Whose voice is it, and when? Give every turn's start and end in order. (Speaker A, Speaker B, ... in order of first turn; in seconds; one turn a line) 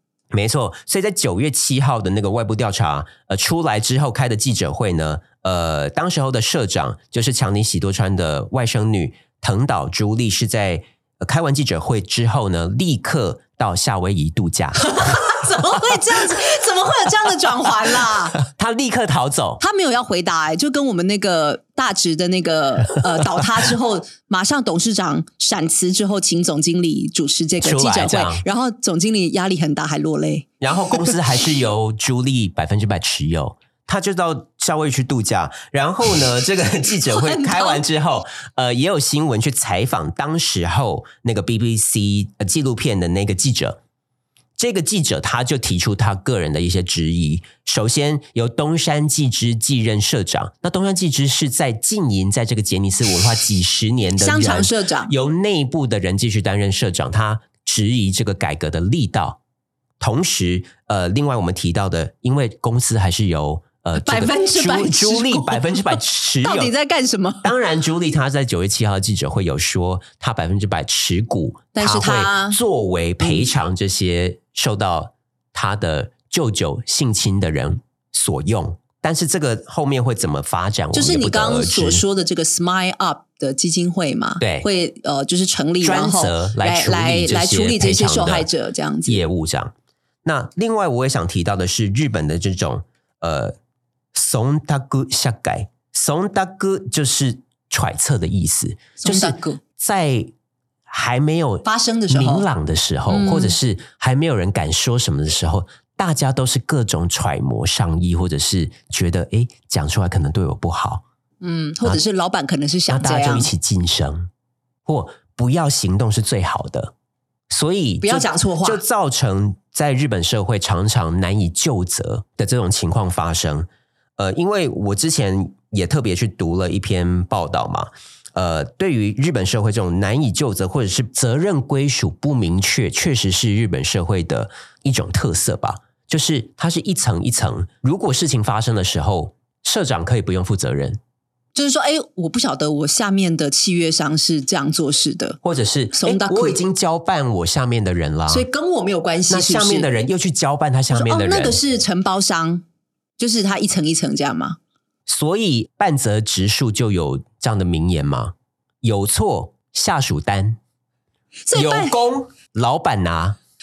Speaker A: 0.3-15.3
Speaker B: 14.8-18.4
Speaker A: 18.4-19.6
Speaker B: 19.6-30.5
Speaker A: 27.6-28.4
Speaker A: 30.6-43.8
Speaker B: 37.0-37.8
Speaker A: 44.6-59.4
Speaker B: 54.1-55.1
Speaker A: 60.0-66.7
Speaker B: 64.0-67.5
Speaker A: 67.4-82.0
Speaker B: 71.7-72.6
Speaker B: 73.2-73.5
Speaker B: 80.9-89.2
Speaker A: 84.4-84.7
Speaker A: 85.8-88.5
Speaker A: 89.1-89.7
Speaker A: 90.2-93.5
Speaker A: 94.1-100.3
Speaker B: 99.0-99.6
Speaker A: 100.9-111.0
Speaker B: 101.6-102.5
Speaker B: 103.1-103.6
Speaker B: 111.4-113.5
Speaker A: 112.9-114.3
Speaker A: 114.8-116.9
Speaker A: 117.5-123.7
Speaker B: 118.0-118.8
Speaker A: 124.2-141.0
Speaker B: 141.5-145.4
Speaker A: 145.4-148.4
Speaker B: 145.9-146.6
Speaker B: 148.3-149.9
Speaker A: 149.3-151.6
Speaker B: 150.9-152.6
Speaker B: 153.2-154.6
Speaker A: 155.1-160.6
Speaker B: 161.5-162.0
Speaker A: 161.5-163.4